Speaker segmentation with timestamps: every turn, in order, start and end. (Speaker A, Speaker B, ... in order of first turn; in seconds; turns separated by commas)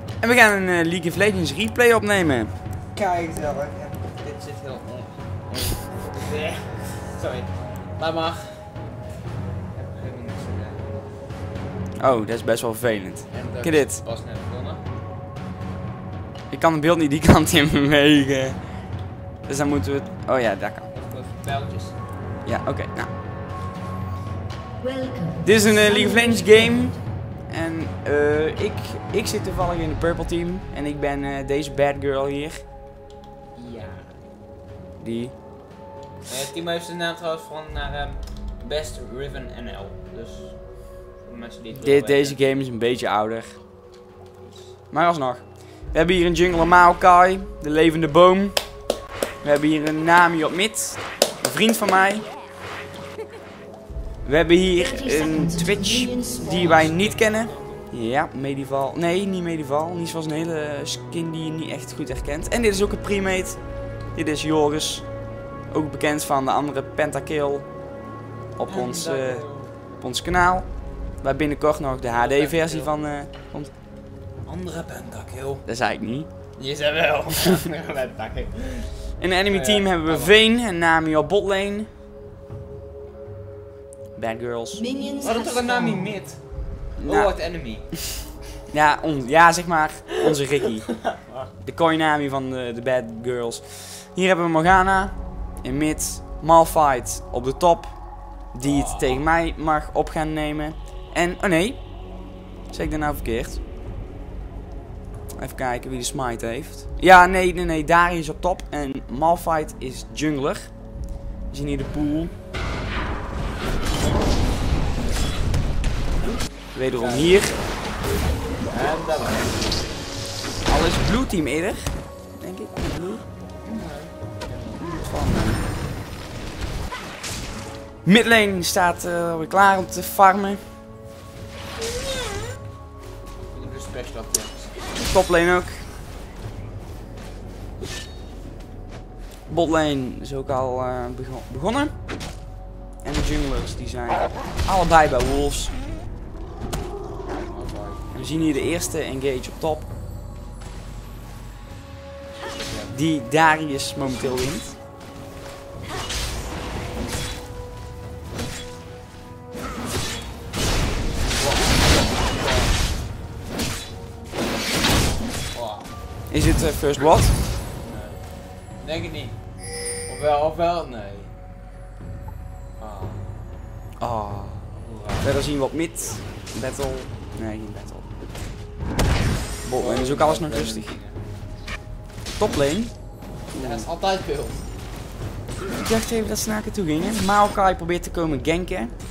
Speaker A: 0.2-2.5, Speaker B: 2.9-8.8, Speaker B: 9.7-11.1, Speaker A: 12.0-14.0, Speaker B: 13.3-14.8, Speaker A: 16.5-18.6, Speaker A: 19.4-20.9, Speaker B: 20.9-22.0, Speaker A: 22.4-23.1, Speaker C: 24.8-27.0, Speaker A: 25.4-26.9, Speaker A: 27.5-32.6, Speaker B: 33.5-34.1, Speaker A: 35.0-35.3, Speaker B: 36.3-40.6, Speaker B: 41.2-42.5, Speaker A: 41.8-43.6, Speaker B: 44.4-44.8, Speaker A: 44.9-48.6, Speaker A: 49.4-52.2, Speaker A: 54.2-63.6, Speaker C: 54.8-56.9, Speaker B: 56.2-57.9, Speaker A: 64.1-65.0, Speaker A: 65.7-67.7, Speaker A: 68.5-69.4, Speaker B: 68.7-69.7, Speaker A: 70.0-70.7, Speaker A: 71.2-73.7, Speaker B: 72.0-72.9, Speaker B: 74.4-75.6, Speaker A: 75.7-76.3, Speaker B: 76.6-78.9, Speaker A: 79.2-81.9, Speaker B: 79.5-80.4, Speaker A: 84.2-84.8, Speaker C: 84.7-86.2, Speaker B: 85.2-86.4, Speaker A: 87.0-87.3, Speaker B: 87.0-87.9, Speaker A: 88.7-91.0, Speaker B: 90.9-91.5, Speaker A: 91.6-97.9, Speaker A: 98.5-101.8, Speaker B: 98.6-99.2, Speaker A: 102.7-103.6, Speaker A: 105.4-110.7, Speaker A: 111.5-112.3, Speaker A: 116.7-117.5, Speaker B: 116.9-117.6, Speaker B: 118.7-119.9, Speaker A: 120.7-123.2, Speaker B: 123.6-124.9, Speaker A: 124.8-125.7, Speaker A: 128.0-130.6, Speaker B: 133.5-134.7, Speaker A: 135.0-135.8, Speaker A: 139.5-141.9, Speaker A: 143.0-145.7, Speaker B: 147.3-148.8, Speaker A: 148.1-149.9, Speaker B: 152.5-152.9, Speaker A: 152.9-154.8, Speaker B: 161.2-162.8, Speaker B: 165.5-165.9, Speaker A: 166.3-167.3, Speaker B: 167.8-168.3, Speaker B: 168.8-169.4, Speaker B: 170.1-171.3, Speaker B: 172.8-173.3, Speaker A: 174.0-174.7, Speaker B: 174.7-175.4, Speaker A: 175.2-178.2, Speaker A: 179.6-180.9, Speaker B: 179.8-181.2, Speaker A: 182.4-182.9, Speaker A: 183.5-183.9, Speaker B: 183.5-184.6, Speaker A: 185.8-189.0